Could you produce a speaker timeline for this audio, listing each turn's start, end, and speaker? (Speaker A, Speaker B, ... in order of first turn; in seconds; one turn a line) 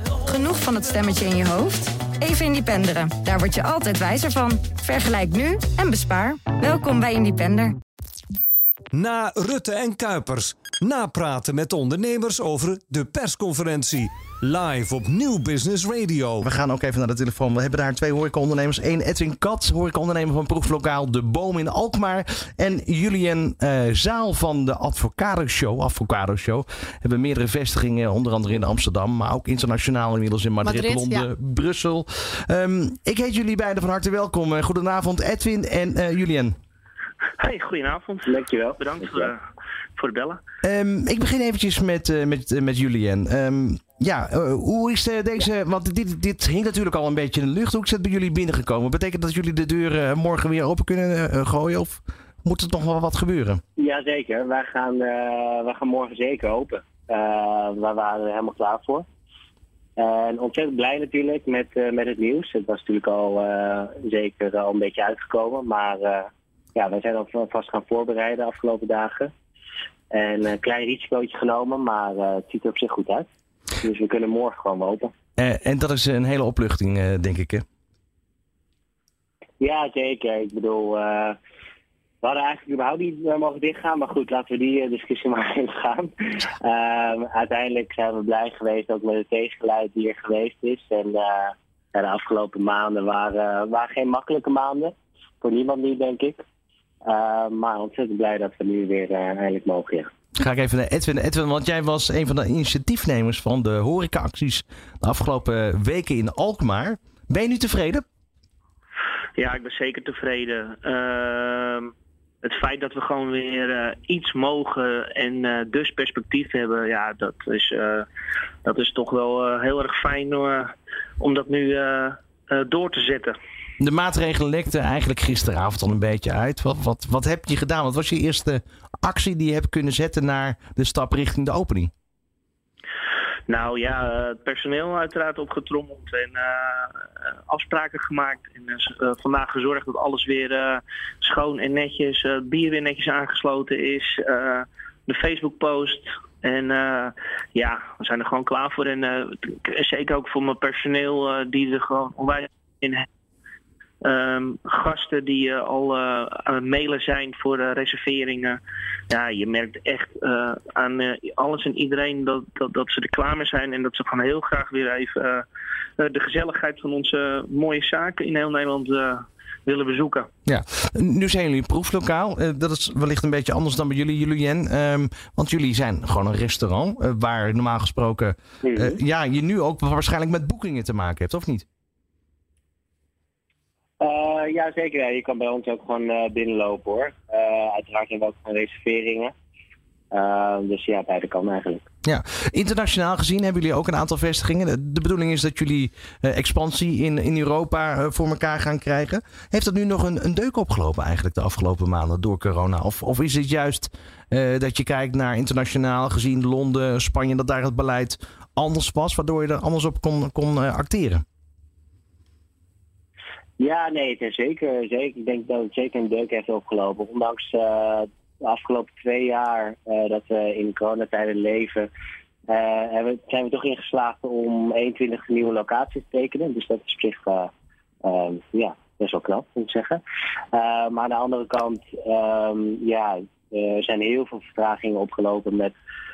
Speaker A: 0.2-7.8
Speaker B: 8.9-16.4
Speaker C: 16.4-36.5
Speaker D: 37.4-39.4
Speaker E: 38.2-39.3
Speaker D: 40.0-40.4
Speaker C: 40.6-53.6
Speaker E: 53.8-59.0
Speaker E: 60.0-69.3
Speaker E: 70.1-73.2
Speaker E: 73.8-75.1
Speaker C: 75.4-77.6
Speaker E: 79.6-81.3
Speaker E: 82.2-96.4
Speaker E: 97.0-100.1
Speaker C: 100.4-108.0
Speaker D: 109.4-111.9
Speaker D: 112.4-118.1
Speaker D: 118.6-123.3
Speaker C: 123.8-131.9
Speaker D: 133.5-153.1
Speaker D: 154.0-165.4
Speaker D: 166.0-170.3
Speaker C: 170.4-181.6
Speaker E: 178.6-179.0
Speaker E: 184.0-189.3
Speaker E: 190.1-191.8
Speaker C: 192.0-211.2
Speaker E: 213.6-221.9
Speaker E: 222.5-227.5
Speaker E: 228.0-230.0
Speaker E: 230.5-235.7